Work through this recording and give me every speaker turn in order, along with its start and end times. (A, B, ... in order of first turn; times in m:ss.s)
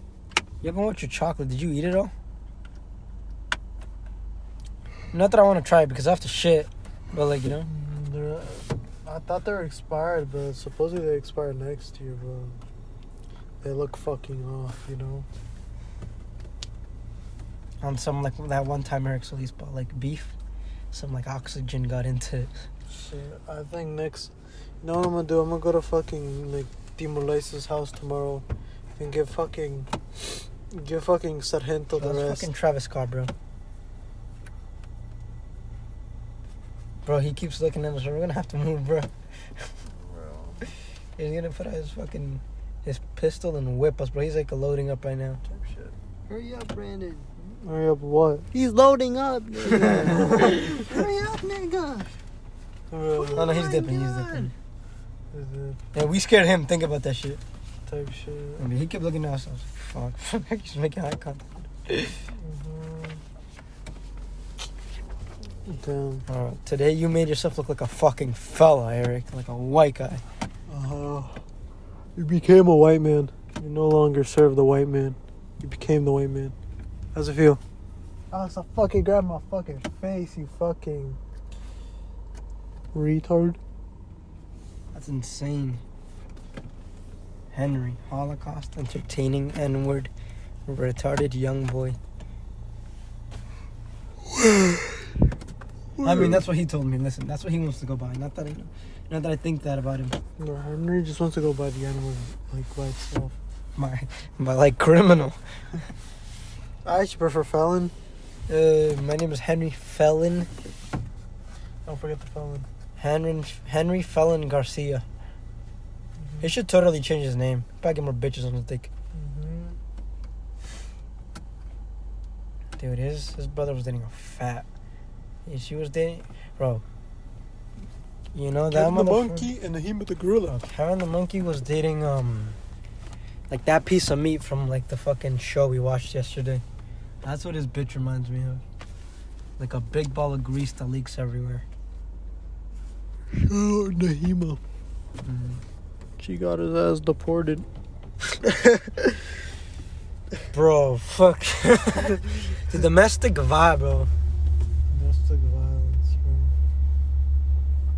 0:00.6-0:02.1 A
0:05.1-0:07.7 A
0:07.7-0:12.6 B
0:13.6-0:15.3 B
0:17.8-0:20.4 A
0:20.9-0:22.5 A
0:22.9-0:24.3 B
0:24.8-0:28.4 B
0:29.0-0:29.9 B
0:30.7-0:32.4 B
0:32.0-0:33.3 A
0:37.0-0:39.6 A
0:40.0-0:40.7 B
0:41.2-0:45.4 A
0:45.5-0:45.9 B
0:46.3-0:47.3 C
0:47.4-0:48.5 B
0:48.5-0:52.1 C
0:49.8-0:50.5 A
0:52.9-0:53.5 B
0:53.2-0:54.5 C
0:53.4-0:54.5 A
0:55.3-0:55.8 B
0:55.9-0:57.4 A
0:57.9-0:58.6 B
0:58.6-1:02.2 A
1:02.4-1:03.2 B
1:05.7-1:06.2 B
1:06.3-1:10.2 A
1:10.7-1:11.4 B
1:12.2-1:16.5 B
1:17.2-1:17.6 B
1:18.3-1:21.2 B
1:22.9-1:23.6 B
1:24.9-1:25.8 A
1:27.5-1:30.1 A
1:30.7-1:32.0 A
1:36.0-1:40.2 A
1:40.4-1:43.4 B
1:43.8-1:45.4 A
1:46.8-1:47.9 B
1:48.5-1:50.5 A
1:51.9-1:52.7 B
1:53.0-1:55.0 A
1:56.4-1:58.9 A
1:59.2-1:59.8 B
2:02.8-2:04.7 A
2:05.5-2:06.8 A
2:08.3-2:09.5 A
2:08.7-2:10.6 B
2:10.5-2:12.6 A
2:13.5-2:16.6 A
2:17.2-2:18.6 A
2:19.6-2:21.6 A
2:23.4-2:24.6 B
2:25.2-2:25.6 A
2:26.2-2:27.7 B
2:30.5-2:34.1 A
2:34.9-2:36.5 B